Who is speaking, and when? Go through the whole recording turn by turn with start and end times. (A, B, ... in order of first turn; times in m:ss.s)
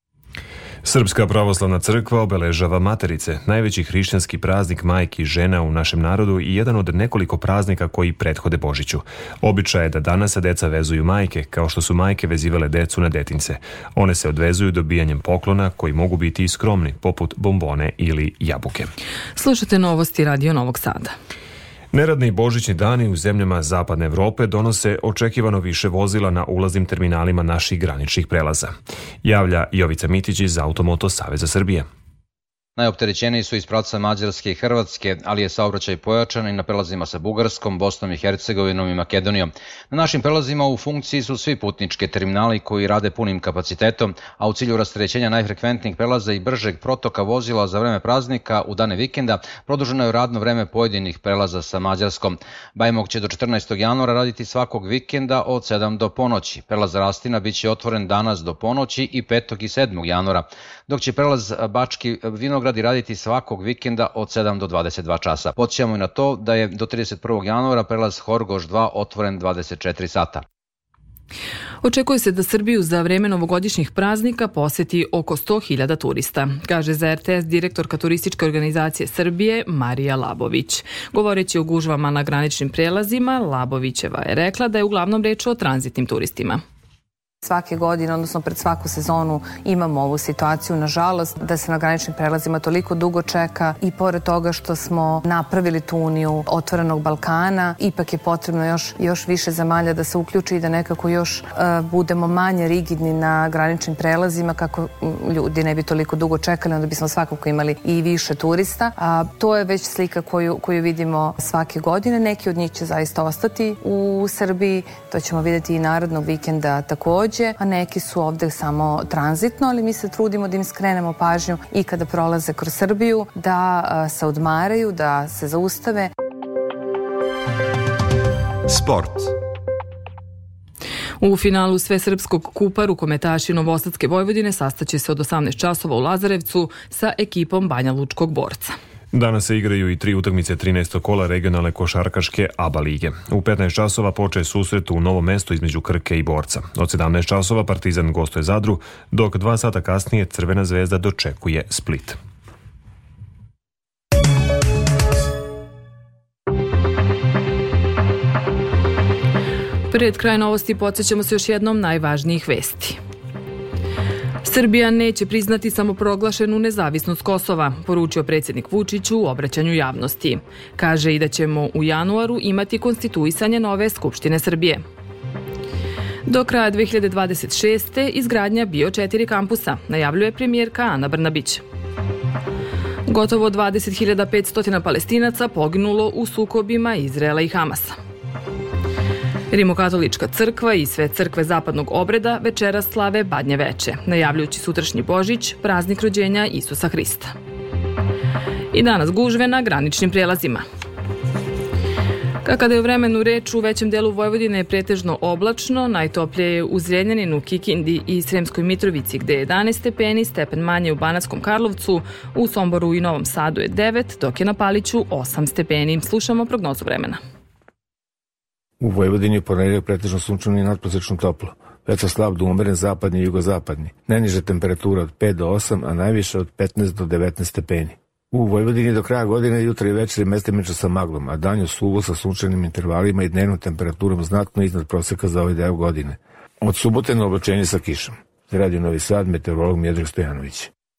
0:00.8-0:18.9 A
0:19.4-0:21.1 B
0:21.9-0:28.7 A
0:29.2-0:31.9 A
0:32.8-1:10.4 C
1:11.8-1:26.6 B
1:27.4-2:06.1 D
2:11.2-2:18.8 B
2:19.1-2:32.2 A
2:39.9-2:43.0 B
2:44.4-2:54.8 B
2:56.2-3:01.6 B
3:03.0-3:08.0 B
3:09.5-3:17.3 B
3:18.7-3:20.6 B
3:22.4-3:37.2 B
3:38.8-4:00.7 E